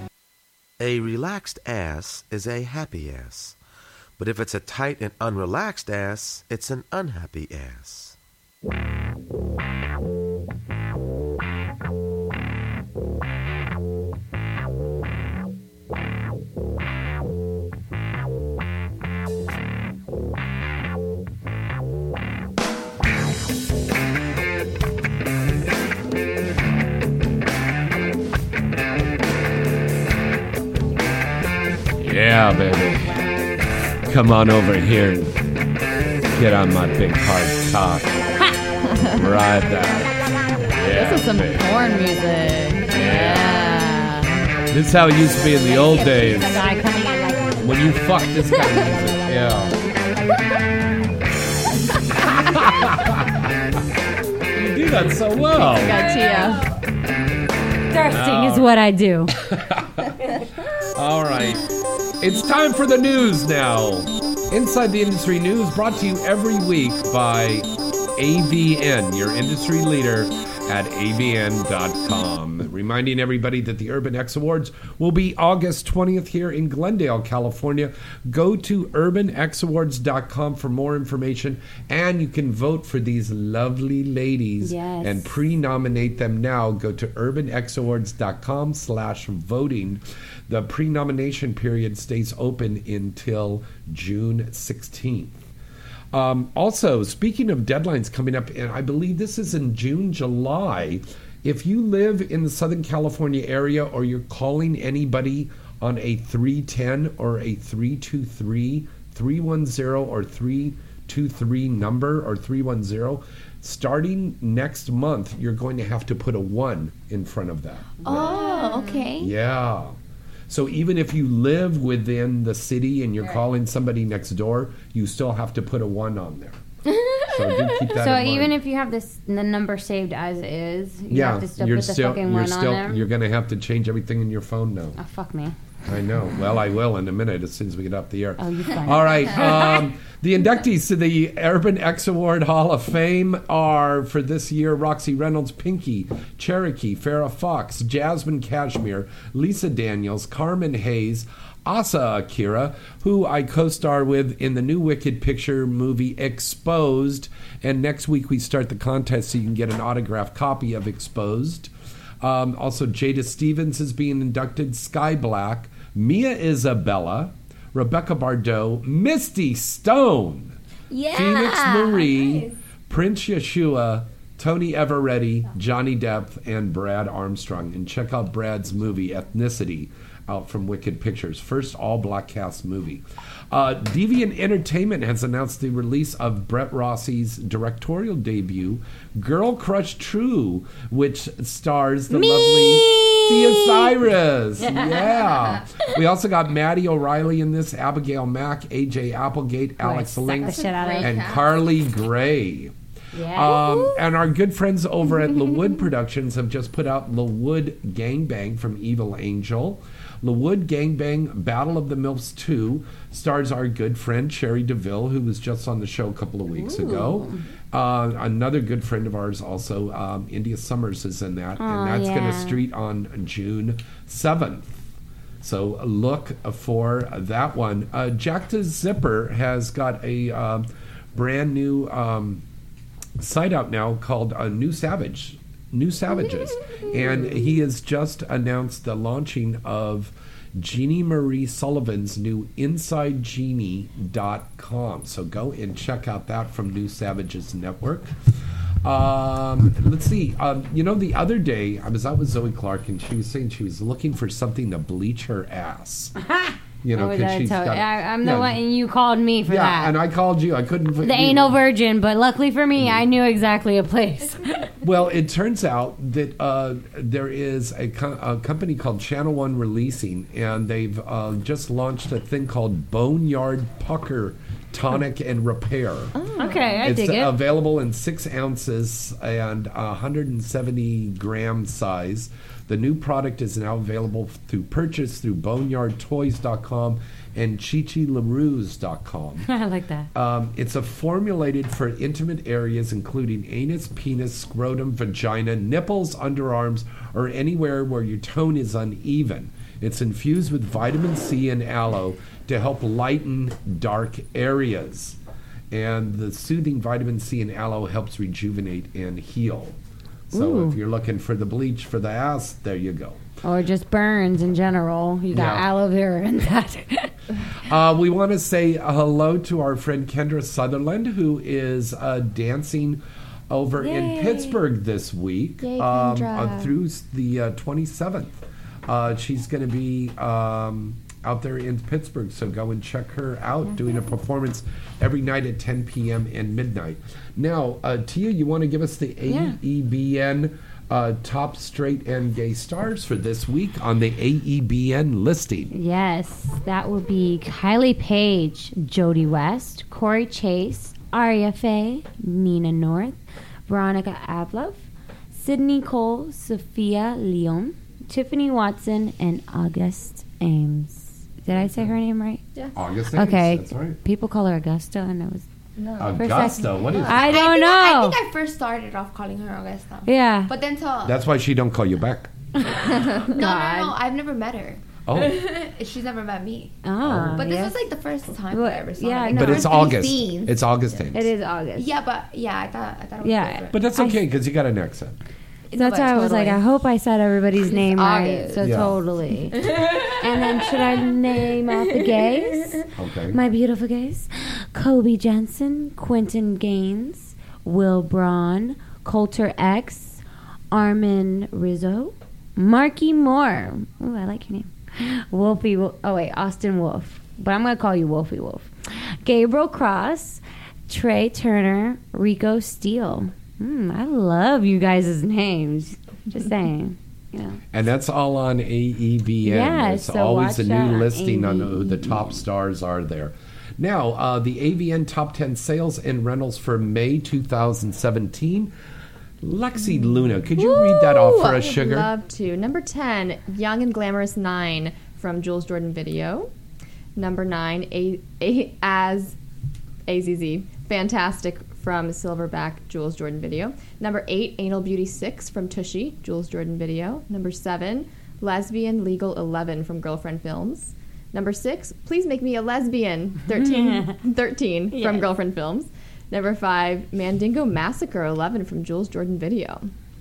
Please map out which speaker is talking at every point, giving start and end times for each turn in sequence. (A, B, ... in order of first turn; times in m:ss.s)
0:00.8-0:03.6 A
0:04.2-0:08.2 A
0:32.0-0:33.1 B
0:34.0-0:35.4 B
0:36.3-0:38.1 B
0:38.9-0:39.2 C
0:39.2-0:40.1 B
0:40.7-0:41.6 B
0:40.9-0:44.4 C
0:42.9-0:43.6 B
0:44.7-0:46.6 B
0:45.6-0:47.7 D
0:47.6-0:49.7 B
0:48.9-0:49.6 D
0:52.2-0:53.4 B
0:54.5-0:56.2 B
0:55.6-0:56.6 C
0:57.9-0:59.3 D
0:58.1-0:58.7 B
0:59.3-1:00.1 B
1:00.9-1:01.7 B
1:02.2-1:35.5 B
1:24.6-1:25.3 D
1:36.1-1:58.4 B
1:58.0-1:59.3 E
1:58.1-1:59.0 D
1:59.2-2:00.0 B
2:00.5-2:06.6 B
2:07.3-2:08.6 B
2:07.9-2:13.1 D
2:11.1-2:15.0 B
2:15.0-2:15.5 D
2:15.8-2:50.6 B
2:18.4-2:19.8 D
2:50.9-2:52.5 E
2:51.1-3:22.7 B
3:12.5-3:13.4 E
3:14.6-3:15.3 D
3:19.8-3:21.2 D
3:20.4-3:21.6 C
3:23.1-3:24.0 D
3:23.3-3:44.9 B
3:36.5-3:37.4 D
3:41.6-3:42.6 D
3:45.4-3:52.4 B
3:53.2-4:08.1 B
4:08.8-4:16.1 B
4:16.2-4:20.0 D
4:16.8-4:18.6 B
4:19.5-4:21.6 B
4:21.0-4:24.7 D
4:22.7-4:23.0 B
4:24.8-4:36.2 B
4:36.2-4:36.7 C
4:36.4-4:37.3 D
4:36.8-4:49.5 B
4:49.5-4:50.1 D
4:50.1-5:05.2 B
5:05.7-5:09.8 B
5:10.3-5:13.2 B
5:10.3-5:10.8 D
5:13.4-5:17.1 D
5:15.3-5:15.7 B
5:17.6-5:28.3 B
5:23.8-5:24.6 D
5:25.6-5:26.7 C
5:28.9-5:45.7 B
5:39.3-5:39.5 D
5:45.7-6:02.4 D
6:01.5-6:01.9 B
6:02.7-6:04.0 B
6:03.1-6:05.4 D
6:05.8-6:07.2 C
6:06.0-6:07.4 B
6:06.1-6:08.2 D
6:07.3-6:11.2 E
6:10.0-6:10.5 D
6:11.0-6:12.3 B
6:12.8-6:13.9 C
6:13.3-6:16.8 E
6:15.1-6:15.4 B
6:16.8-6:17.7 D
6:17.0-6:17.4 B
6:17.3-6:20.6 E
6:18.5-6:19.8 D
6:19.3-6:21.3 B
6:21.1-6:21.9 D
6:21.8-6:23.8 E
6:23.2-6:24.2 D
6:23.7-6:25.2 B
6:25.7-6:26.6 E
6:25.7-6:40.2 D
6:27.6-6:28.8 E
6:28.6-6:29.0 B
6:33.0-6:33.4 B
6:40.7-6:57.6 D
6:57.7-7:08.7 B
6:59.4-7:02.2 D
7:09.4-7:12.1 B
7:10.6-7:16.5 C
7:17.2-7:19.4 C
7:20.1-7:39.9 C
7:33.5-7:34.2 D
7:34.9-7:35.3 D